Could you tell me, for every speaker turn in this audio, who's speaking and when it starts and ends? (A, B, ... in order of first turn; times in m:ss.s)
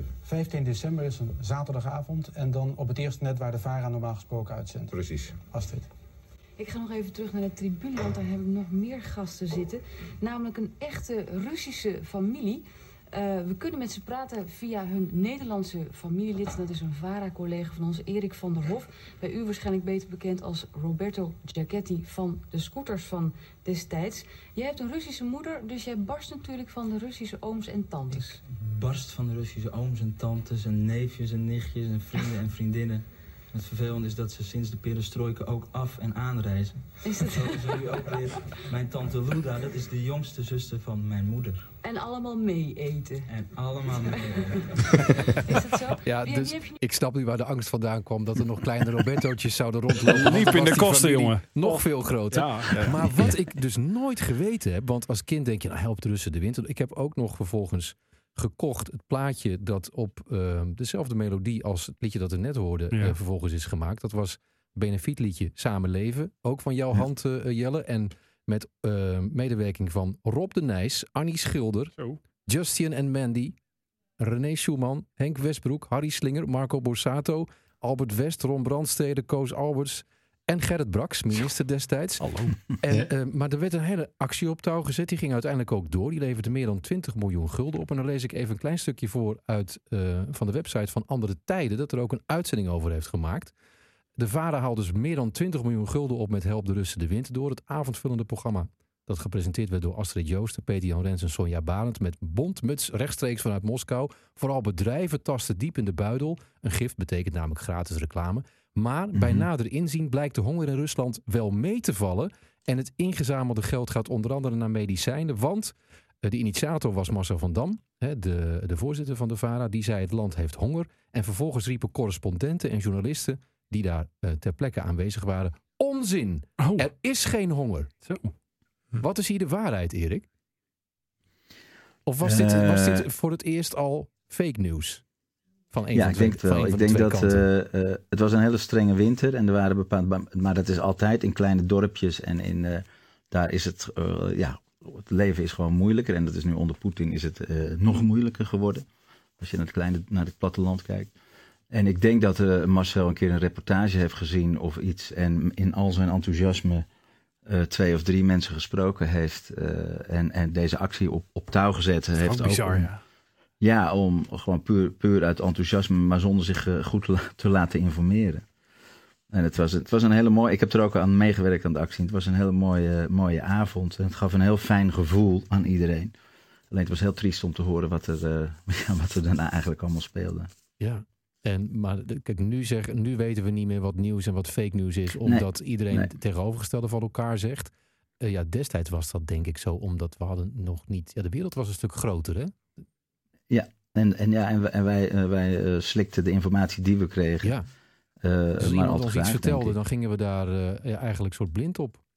0:00.2-0:05.9 A
0:06.6-0:28.4 B
0:28.2-0:41.6 C
0:37.0-0:38.0 B
0:41.8-0:43.3 B
0:43.3-0:45.1 C
0:44.0-0:46.8 B
0:46.0-1:11.9 D
0:50.1-0:53.2 E
1:12.5-1:13.6 D
1:14.2-1:22.3 D
1:22.2-1:22.5 E
1:22.8-1:33.5 D
1:34.2-2:07.9 D
1:49.2-1:49.5 F
2:06.6-2:06.9 E
2:08.0-2:08.3 E
2:09.0-2:10.3 D
2:12.1-2:15.0 D
2:12.2-2:13.1 F
2:15.7-2:17.5 D
2:15.9-2:28.9 F
2:29.4-2:31.1 F
2:31.7-2:36.9 F
2:37.5-2:42.9 F
2:42.2-2:43.0 E
2:43.6-2:48.4 F
2:49.3-2:56.1 F
2:56.7-3:00.5 F
3:00.8-3:12.6 D
3:05.2-3:06.1 F
3:13.5-3:17.6 F
3:17.4-3:17.7 D
3:18.2-3:19.8 F
3:18.6-3:22.0 D